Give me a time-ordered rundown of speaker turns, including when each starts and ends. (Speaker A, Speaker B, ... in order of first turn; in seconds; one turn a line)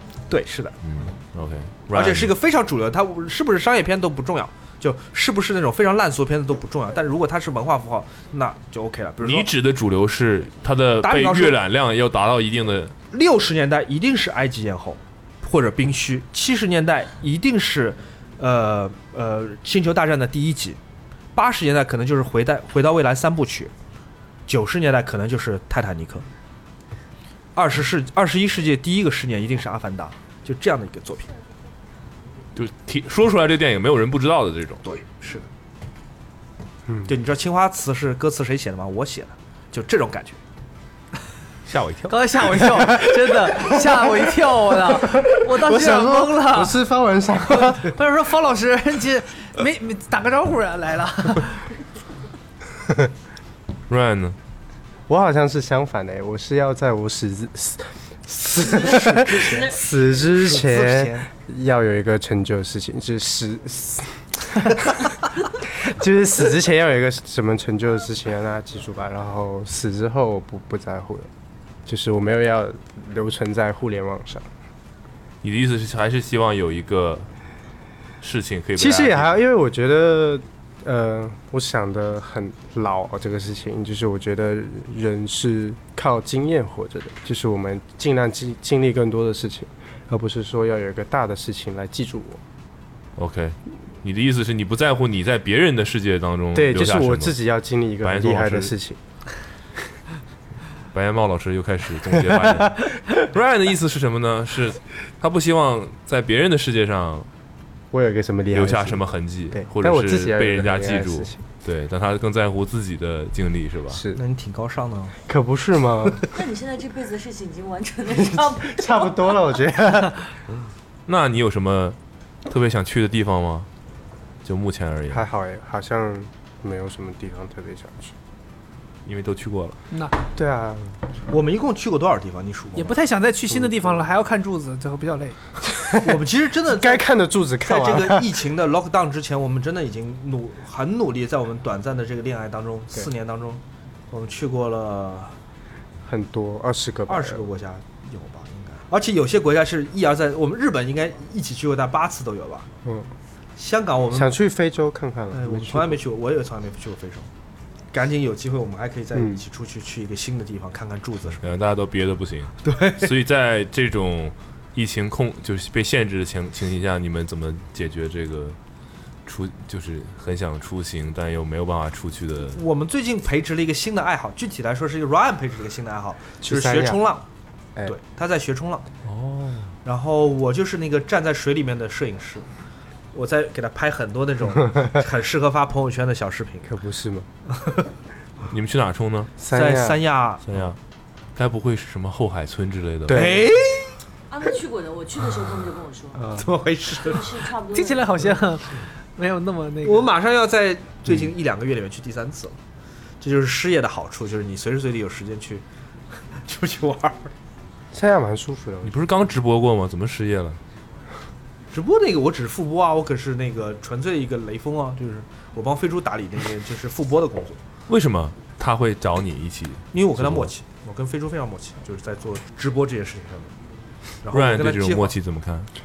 Speaker A: 0.3-0.8
Speaker B: 0.8-2.3
Speaker A: 1.9-9.5
Speaker B: 9.2-12.9
Speaker A: 11.0-11.6
Speaker A: 13.1-20.8
Speaker A: 21.3-23.7
Speaker A: 24.5-26.2
Speaker A: 27.5-31.3
Speaker B: 32.5-34.8
Speaker A: 34.8-35.5
Speaker A: 37.1-40.4
Speaker B: 41.6-42.4
Speaker C: 42.1-46.8
Speaker D: 45.1-47.9
Speaker C: 47.6-51.7
Speaker B: 53.9-54.4
Speaker D: 55.1-71.3
Speaker A: 58.5-61.2
Speaker D: 71.8-74.5
Speaker B: 75.4-77.3
Speaker B: 78.2-79.4
Speaker D: 78.8-92.4
Speaker B: 93.2-97.3
Speaker D: 96.5-99.0
Speaker B: 98.0-98.7
Speaker B: 100.9-107.3
Speaker D: 107.9-111.4
Speaker B: 108.5-114.0
Speaker D: 113.9-114.2
Speaker A: 114.1-115.1
Speaker D: 115.2-116.2
Speaker E: 116.3-119.4
Speaker D: 118.1-120.2
Speaker B: 121.0-123.7
Speaker B: 124.4-125.2
Speaker D: 125.1-128.1
Speaker B: 129.0-129.8
Speaker D: 130.3-131.0
Speaker A: 131.3-132.9
Speaker C: 132.8-135.4
Speaker D: 133.5-133.9
Speaker A: 136.0-137.0
Speaker D: 136.7-138.3
Speaker A: 137.6-145.3
Speaker D: 146.0-147.4
Speaker A: 147.1-152.7
Speaker D: 152.8-153.1
Speaker A: 153.6-154.3
Speaker D: 154.1-156.0
Speaker A: 155.3-157.3
Speaker A: 157.9-161.5
Speaker D: 159.1-159.4
Speaker B: 161.4-168.6
Speaker A: 162.6-163.1
Speaker B: 169.2-172.6
Speaker A: 172.5-177.3
Speaker D: 176.4-177.0
Speaker A: 177.8-178.9
Speaker B: 179.0-179.7
Speaker A: 179.8-182.5
Speaker A: 183.1-186.7
Speaker D: 186.7-187.3
Speaker B: 188.5-189.3
Speaker D: 189.4-190.0
Speaker A: 189.5-190.4
Speaker B: 190.5-190.8
Speaker B: 191.3-193.3
Speaker D: 193.1-193.5
Speaker A: 193.1-194.0
Speaker E: 194.3-196.3
Speaker D: 196.2-196.4
Speaker A: 196.3-197.4
Speaker E: 197.0-198.2
Speaker C: 197.7-200.1
Speaker A: 199.8-202.6
Speaker A: 203.2-205.6
Speaker A: 206.3-207.3
Speaker D: 207.9-209.0
Speaker B: 208.8-210.6
Speaker A: 211.7-217.6
Speaker B: 217.9-220.5
Speaker A: 219.9-223.5
Speaker A: 224.2-225.1
Speaker B: 224.3-225.7